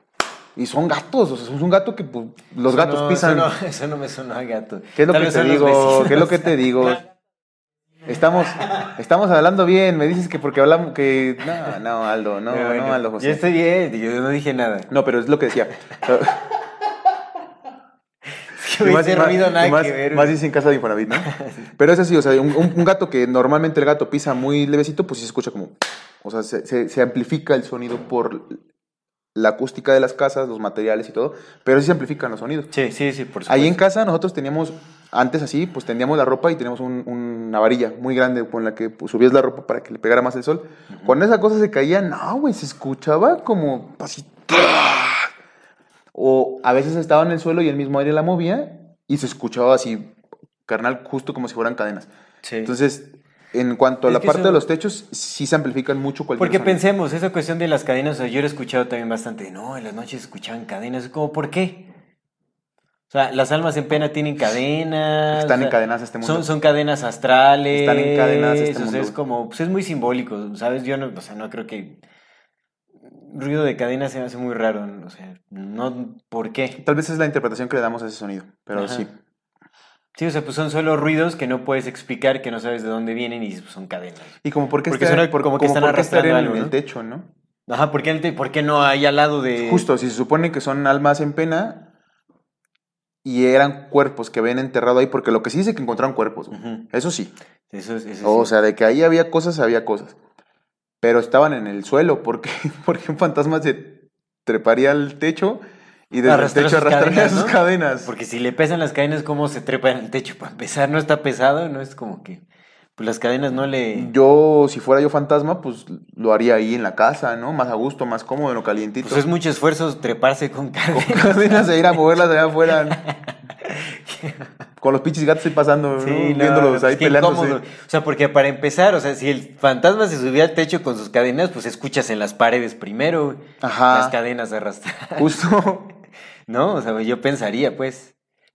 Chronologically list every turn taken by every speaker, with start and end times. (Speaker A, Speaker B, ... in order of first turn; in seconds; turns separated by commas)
Speaker A: 0.6-3.5, Speaker B: 2.6-6.9, Speaker A: 5.0-7.0, Speaker A: 8.1-13.4, Speaker B: 12.5-14.9, Speaker A: 14.9-16.5, Speaker B: 18.4-20.4, Speaker A: 18.8-28.6, Speaker B: 21.3-21.7, Speaker A: 29.4-32.7, Speaker B: 32.7-33.8, Speaker A: 33.5-45.3, Speaker B: 40.9-41.2, Speaker A: 46.1-50.1, Speaker A: 50.7-52.1, Speaker B: 52.4-52.7, Speaker A: 52.6-56.8, Speaker B: 54.1-54.7, Speaker B: 56.4-61.9, Speaker B: 63.1-72.0, Speaker A: 65.3-66.5, Speaker A: 67.7-69.2, Speaker B: 73.1-76.8, Speaker A: 76.8-79.1, Speaker B: 78.8-79.1, Speaker B: 80.2-86.8, Speaker A: 84.4-87.3, Speaker B: 87.7-89.9, Speaker A: 89.6-91.9, Speaker A: 93.2-97.3, Speaker B: 96.5-96.9, Speaker B: 97.7-98.5, Speaker A: 98.2-100.2, Speaker A: 101.0-108.1, Speaker B: 106.2-112.4, Speaker B: 113.0-114.1, Speaker A: 113.9-119.2, Speaker B: 119.0-122.0, Speaker A: 120.9-123.0, Speaker B: 123.0-124.5, Speaker A: 124.8-127.6, Speaker B: 126.0-135.5, Speaker A: 133.6-134.2, Speaker A: 135.2-135.9, Speaker B: 136.5-138.1